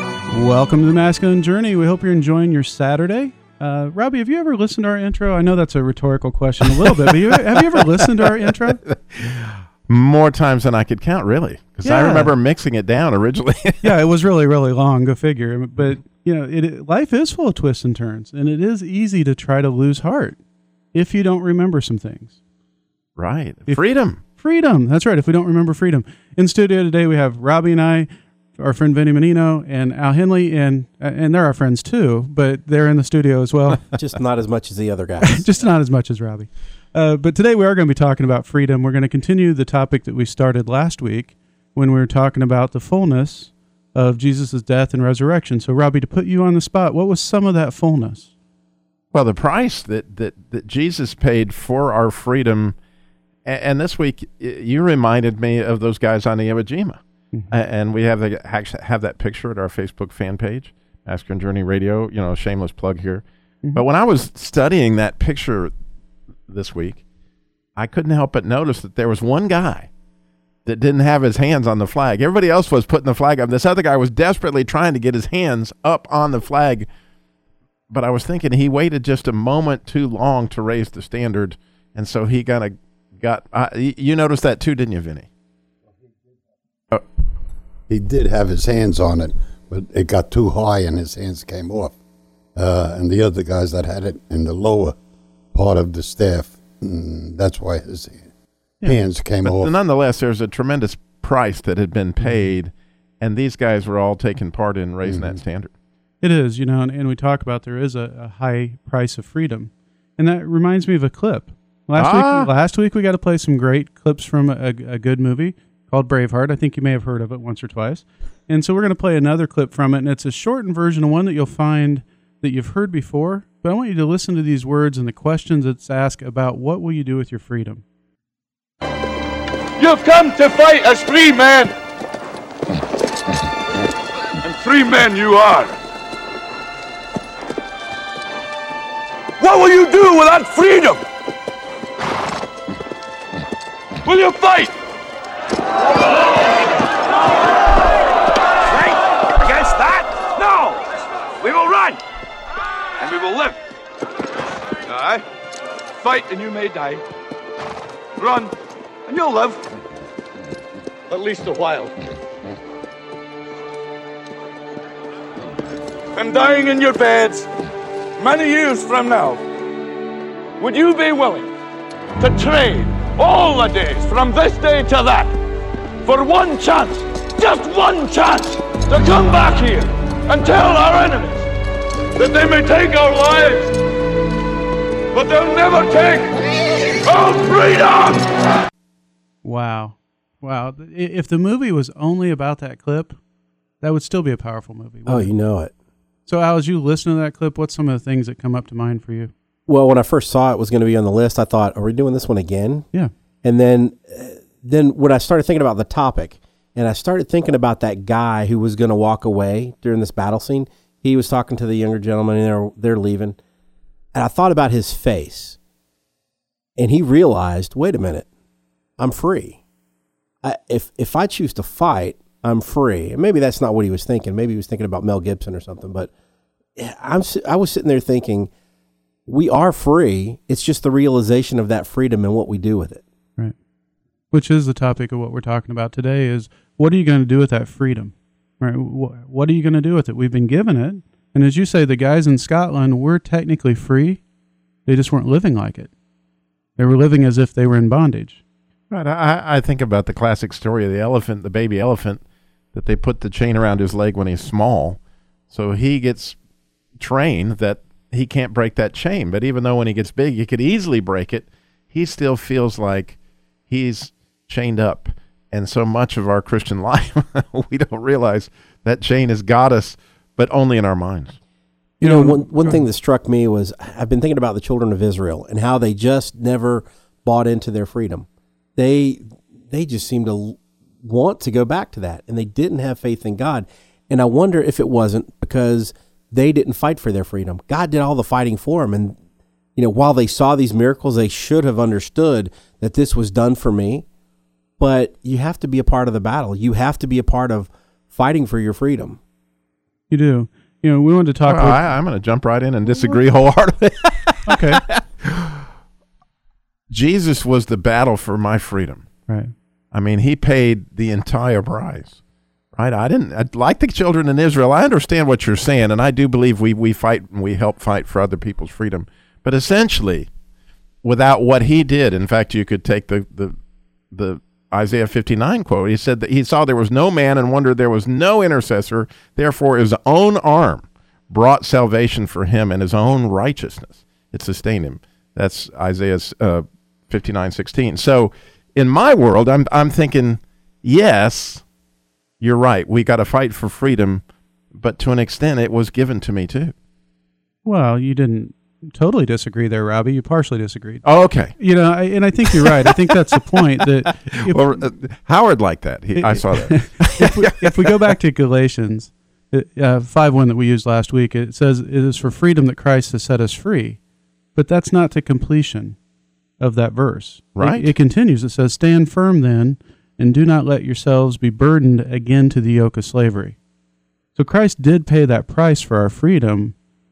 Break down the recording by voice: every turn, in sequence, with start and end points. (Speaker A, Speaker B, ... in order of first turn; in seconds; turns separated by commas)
Speaker A: 0.3-8.8, Speaker B: 8.4-13.9, Speaker A: 11.8-12.3, Speaker A: 13.8-20.4, Speaker A: 20.9-22.4, Speaker B: 23.2-24.2, Speaker A: 23.7-33.8, Speaker C: 33.9-35.5, Speaker A: 35.3-48.3, Speaker B: 49.1-52.8, Speaker B: 53.5-65.7, Speaker B: 66.5-67.0, Speaker B: 67.8-69.9, Speaker B: 70.7-76.9, Speaker B: 77.9-85.3, Speaker D: 87.9-92.0, Speaker D: 92.6-95.0, Speaker D: 95.5-98.3, Speaker D: 98.8-99.7, Speaker B: 99.4-105.7, Speaker D: 105.0-105.4, Speaker A: 106.2-127.8, Speaker B: 112.0-112.5, Speaker E: 129.8-131.7, Speaker E: 134.4-135.8, Speaker E: 139.4-141.0, Speaker E: 144.1-144.7, Speaker E: 148.7-152.0, Speaker E: 153.0-153.6, Speaker E: 154.9-155.2, Speaker E: 156.0-157.0, Speaker E: 158.2-158.5, Speaker E: 159.1-159.6, Speaker E: 161.1-161.9, Speaker E: 166.2-167.5, Speaker E: 168.2-169.4, Speaker E: 170.6-171.5, Speaker E: 172.2-175.4, Speaker E: 176.0-181.5, Speaker E: 182.2-183.8, Speaker E: 185.1-186.3, Speaker E: 187.1-188.3, Speaker A: 189.4-193.2, Speaker A: 193.8-195.3, Speaker C: 195.1-195.7, Speaker A: 196.3-199.3, Speaker C: 199.7-202.9, Speaker C: 203.4-213.4, Speaker C: 214.1-215.6, Speaker C: 216.8-218.3, Speaker C: 219.0-219.6, Speaker C: 220.4-226.1, Speaker C: 226.8-228.5, Speaker C: 229.3-233.0, Speaker A: 234.3-244.2, Speaker A: 244.9-245.9, Speaker A: 246.8-248.4, Speaker B: 248.9-252.2, Speaker B: 252.7-255.0, Speaker B: 255.5-256.4, Speaker B: 257.0-263.2, Speaker B: 263.7-271.4, Speaker A: 272.0-272.8, Speaker C: 272.0-289.2, Speaker C: 289.8-294.1, Speaker C: 294.8-299.2, Speaker A: 300.1-301.8, Speaker B: 301.5-305.6, Speaker A: 304.5-304.8, Speaker B: 306.9-309.1, Speaker A: 309.3-309.5, Speaker B: 309.9-312.2, Speaker B: 312.8-320.3, Speaker B: 321.0-323.6, Speaker B: 324.1-341.6, Speaker B: 342.4-344.2, Speaker B: 344.7-346.7, Speaker A: 347.6-354.8, Speaker B: 351.0-351.6, Speaker B: 352.6-352.9, Speaker B: 354.3-357.7, Speaker A: 356.1-364.0, Speaker A: 364.6-366.0, Speaker A: 366.6-373.6, Speaker B: 367.6-367.9, Speaker A: 374.4-376.8